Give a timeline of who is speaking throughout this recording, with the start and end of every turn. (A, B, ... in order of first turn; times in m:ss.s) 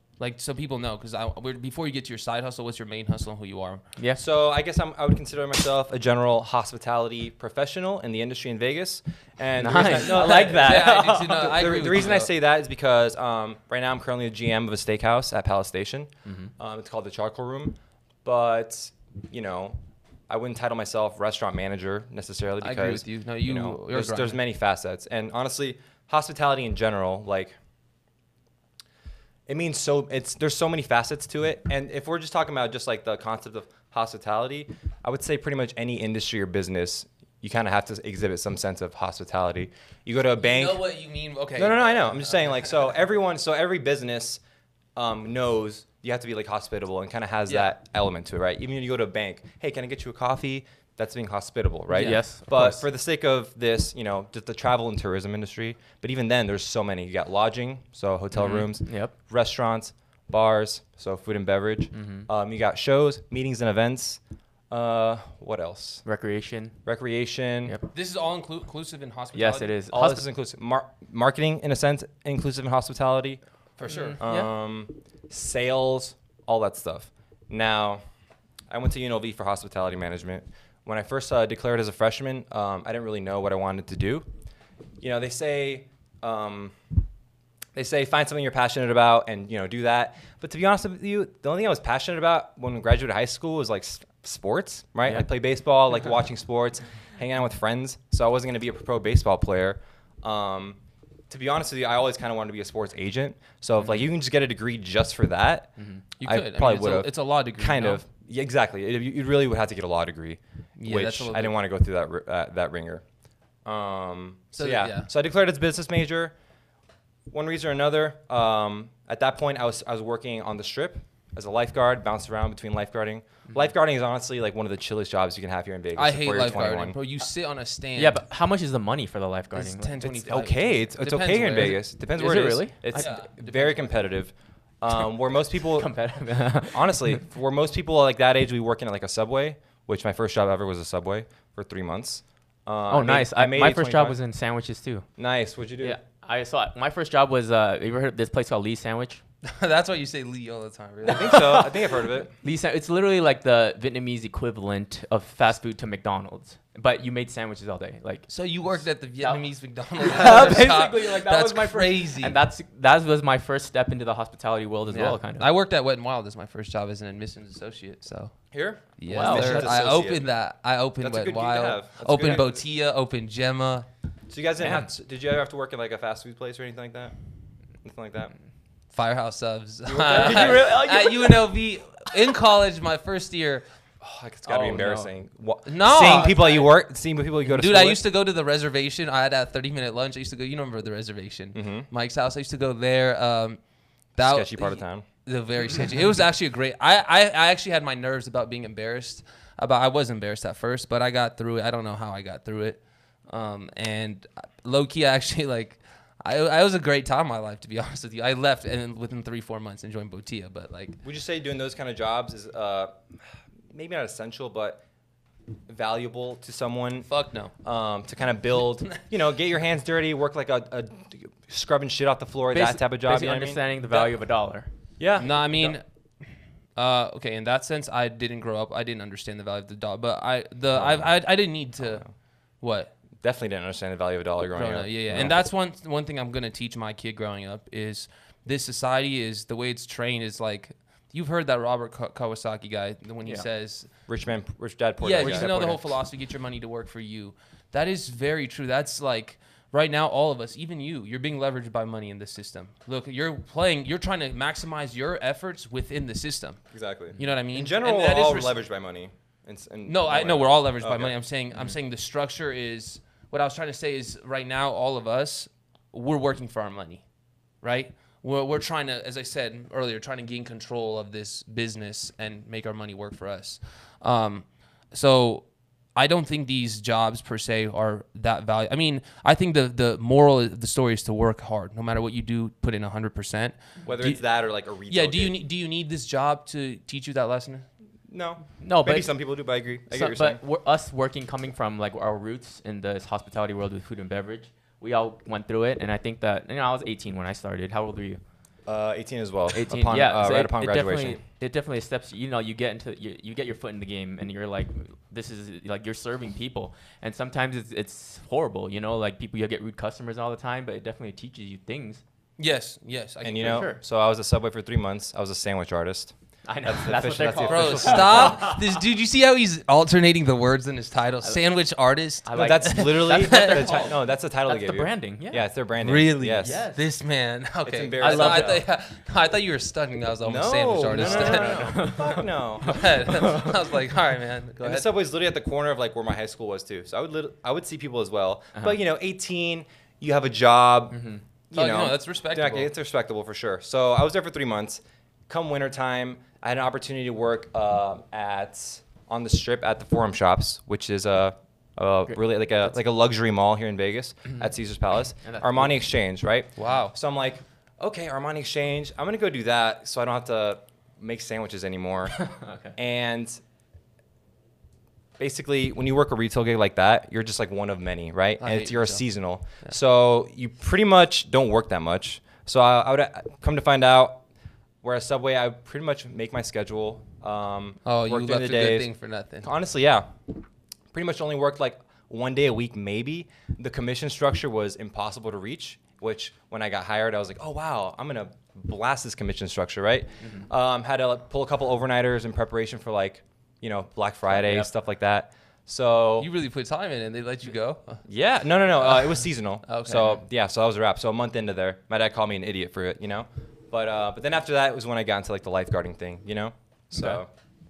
0:00.2-0:03.8 A
0:04.2-0:19.8 B
0:09.6-0:10.8 C
0:09.7-0:12.3 A
0:16.2-0:16.5 C
0:20.3-0:27.6 B
0:22.6-0:24.4 A
0:29.5-0:40.8 B
0:40.4-0:42.5 A
0:41.6-0:44.4 B
0:45.0-1:06.0 B
0:51.9-0:52.8 C
0:58.3-0:59.1 C
1:01.9-1:02.3 C
1:06.0-1:06.8 C
1:06.8-1:07.8 B
1:07.9-1:09.7 A
1:09.3-1:10.2 C
1:09.9-1:13.4 B
1:13.8-1:14.2 A
1:13.9-1:14.5 C
1:14.2-1:18.0 B
1:18.7-1:24.3 B
1:25.0-1:26.8 B
1:27.7-1:40.8 B
1:41.3-1:53.0 B
1:45.8-1:46.0 C
1:46.2-1:48.0 A
1:50.8-1:51.6 A
1:53.6-1:56.4 B
1:54.5-1:55.1 A
1:57.3-2:07.0 B
2:06.0-2:08.2 A
2:08.0-2:10.1 C
2:09.5-2:11.8 A
2:10.0-2:15.9 B
2:12.1-2:13.1 C
2:12.9-2:14.0 A
2:15.7-2:17.2 C
2:16.7-2:24.2 B
2:22.9-2:25.1 C
2:25.2-2:26.0 B
2:25.8-2:29.2 C
2:29.4-2:31.6 A
2:31.1-2:32.4 B
2:31.1-2:38.3 C
2:38.3-2:42.4 A
2:40.0-2:45.5 C
2:40.2-2:40.6 B
2:44.9-2:48.4 A
2:48.5-2:50.3 B
2:49.0-2:53.9 A
2:49.1-2:49.7 C
2:51.0-2:52.6 B
2:54.3-2:57.1 B
2:57.8-2:58.3 B
2:58.9-3:03.6 A
2:59.8-3:00.7 B
3:00.1-3:01.4 C
3:04.0-3:08.0 B
3:04.4-3:05.1 C
3:05.6-3:06.6 A
3:06.0-3:06.6 C
3:07.4-3:13.6 A
3:11.5-3:11.9 B
3:14.1-3:31.0 A
3:14.2-3:15.0 B
3:31.0-3:33.0 B
3:33.7-3:34.8 B
3:35.7-3:44.0 B
3:37.1-3:37.5 A
3:42.5-3:44.7 C
3:45.0-3:45.8 B
3:45.2-3:45.8 A
3:46.8-3:52.0 A
3:50.7-3:51.2 B
3:51.8-3:52.1 B
3:52.6-3:52.9 A
3:53.2-3:55.3 B
3:54.6-4:03.9 A
4:04.1-4:05.8 B
4:05.0-4:16.6 A
4:05.2-4:05.7 C
4:16.7-4:21.1 B
4:17.2-4:18.6 A
4:19.8-4:27.0 A
4:27.6-4:44.2 A
4:43.8-4:45.4 B
4:44.9-4:47.6 A
4:48.1-4:50.4 B
4:48.6-4:49.2 C
4:49.9-4:58.2 C
4:58.7-5:01.2 B
4:59.5-5:12.0 C
5:12.4-5:13.6 A
5:13.2-5:18.5 B
5:13.4-5:13.8 C
5:16.4-5:18.6 C
5:17.5-5:23.8 A
5:22.2-5:25.5 C
5:22.3-5:26.6 B
5:25.8-5:32.0 A
5:26.4-5:26.8 C
5:27.6-5:28.6 B
5:28.0-5:28.6 C
5:30.2-5:32.9 B
5:30.9-5:33.5 C
5:32.6-5:34.9 A
5:34.6-6:02.2 B
5:40.9-5:41.2 C
5:41.5-5:42.7 A
5:55.2-5:55.7 C
5:56.6-5:56.9 A
6:02.2-6:02.7 C
6:02.7-6:03.4 B
6:05.2-6:14.2 B
6:08.4-6:09.0 A
6:14.8-6:18.9 B
6:17.8-6:19.5 A
6:19.4-6:20.4 B
6:20.9-6:36.3 B
6:34.3-6:34.7 C
6:36.2-6:38.0 A
6:38.0-6:47.3 B
6:38.8-6:40.2 A
6:46.9-6:47.2 C